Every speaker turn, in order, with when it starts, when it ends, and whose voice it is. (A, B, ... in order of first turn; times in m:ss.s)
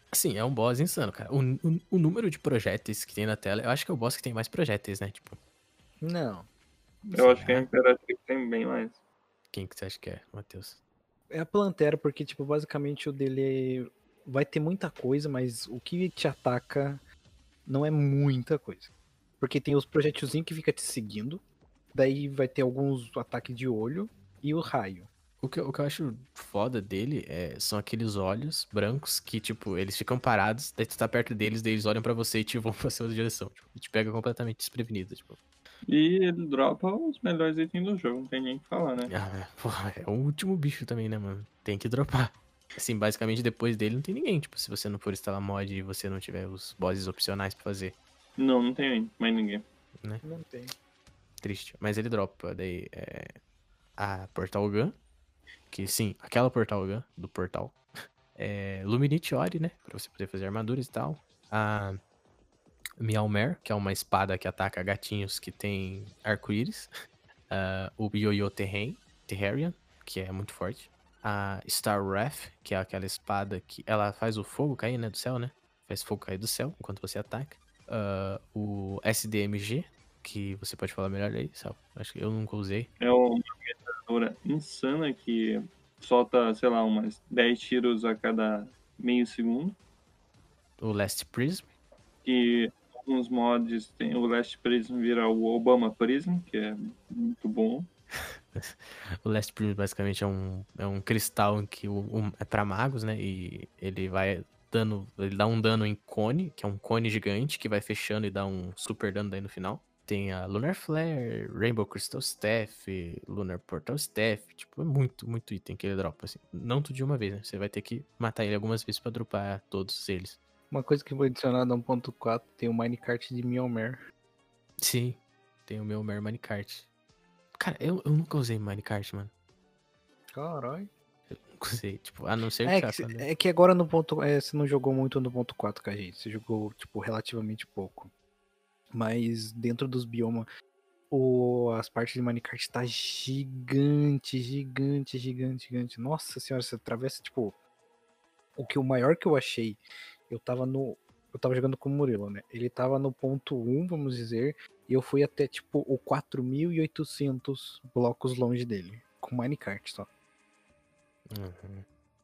0:00.1-0:05.4 A
0:06.0-0:06.5 B
0:07.0-0:09.0 C
0:07.1-0:07.7 A
0:09.5-0:10.8 A
0:11.3-0:17.0 B
0:17.6-0:21.4 B
0:21.9-0:25.1 B
0:25.4-0:35.4 A
0:35.9-0:39.1 C
0:39.1-0:48.0 A
0:48.4-0:49.6 C
0:50.2-0:50.7 B
0:51.4-0:53.3 A
0:54.0-0:55.0 A
0:55.7-0:57.8 A
0:58.3-1:02.0 A
1:03.0-1:06.9 A
1:07.5-1:22.9 A
1:23.0-1:29.8 C
1:30.8-1:31.7 A
1:32.2-1:37.9 C
1:38.5-2:00.4 A
2:00.7-2:04.0 B
2:04.8-2:06.9 A
2:07.6-2:09.3 A
2:10.3-2:10.9 B
2:11.3-2:13.3 A
2:12.6-2:18.1 B
2:18.9-2:20.5 B
2:21.1-2:27.6 B
2:28.6-2:40.1 B
2:41.3-2:41.8 A